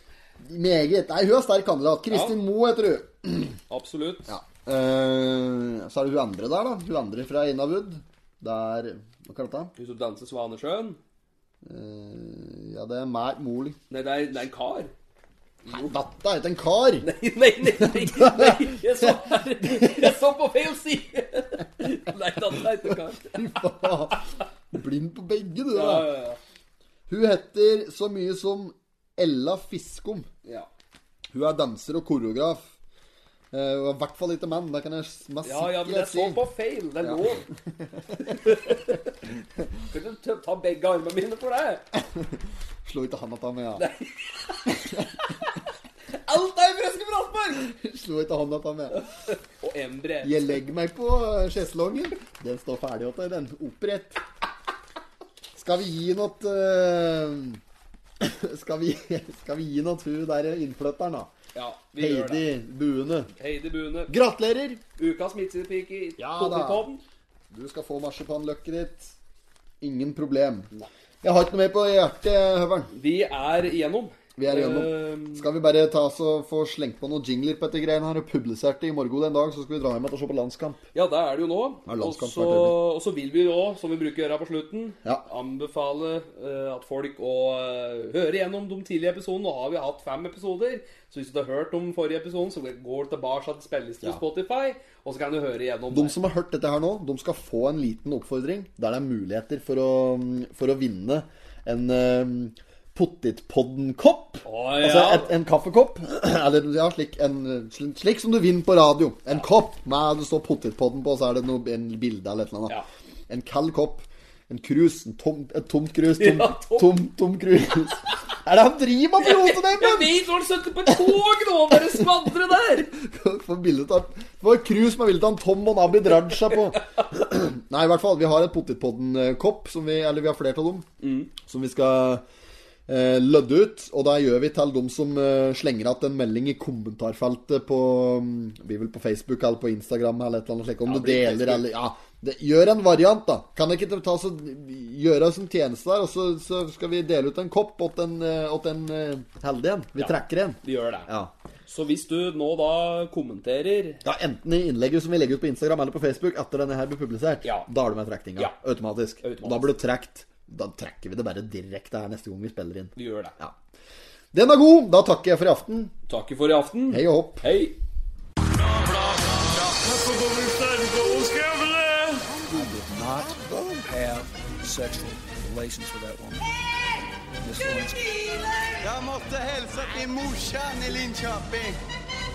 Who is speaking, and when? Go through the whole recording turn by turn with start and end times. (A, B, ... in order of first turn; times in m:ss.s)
0:00.4-0:03.6 A
0:02.1-0:02.4 B
0:03.7-0:04.3 B
0:04.3-0:09.7 A
0:09.8-0:11.0 B
0:11.6-0:13.8 A
0:13.9-0:14.9 B
0:15.6-0:15.9 B
0:15.7-0:17.1 A
0:17.0-0:23.6 B
0:17.8-0:20.1 A
0:22.7-0:26.1 A
0:25.7-0:26.4 B
0:27.1-0:30.3 A
0:31.3-0:32.7 A
0:33.5-0:36.4 A
0:35.4-0:37.4 B
0:37.0-0:38.5 A
0:38.2-0:39.0 B
0:39.9-0:41.8 B
0:41.9-0:43.8 A
0:43.8-0:45.6 B
0:44.7-0:45.0 A
0:46.1-0:47.7 B
0:47.6-0:49.0 A
0:49.6-0:50.4 B
0:50.2-0:54.2 A
0:55.5-0:57.6 A
0:58.2-1:01.3 A
1:01.5-1:02.4 B
1:02.0-1:03.3 A
1:03.3-1:04.1 B
1:04.1-1:04.8 A
1:05.0-1:07.0 B
1:06.2-1:06.9 A
1:07.5-1:09.1 A
1:09.8-1:10.7 A
1:11.2-1:12.9 A
1:12.9-1:15.5 B
1:14.4-1:20.8 A
1:20.9-1:36.2 B
1:21.8-1:22.8 A
1:35.9-1:52.7 A
1:44.4-1:45.3 B
1:53.3-2:00.1 A
1:56.2-1:57.0 B
1:59.2-2:02.9 B
2:00.9-2:01.2 A
2:01.7-2:02.0 A
2:02.9-2:10.8 A
2:11.0-2:11.3 B
2:11.4-2:12.2 A
2:12.9-2:31.3 A
2:20.8-2:21.7 B
2:30.0-2:31.1 B
2:31.7-2:34.0 B
2:34.0-2:43.5 A
2:39.2-2:39.7 B
2:43.0-2:43.3 B
2:44.3-2:45.9 A
2:46.1-2:47.8 B
2:46.9-2:47.4 A
2:48.4-2:56.5 C
2:52.3-2:53.9 A
2:57.4-2:58.4 C
2:58.8-3:01.8 D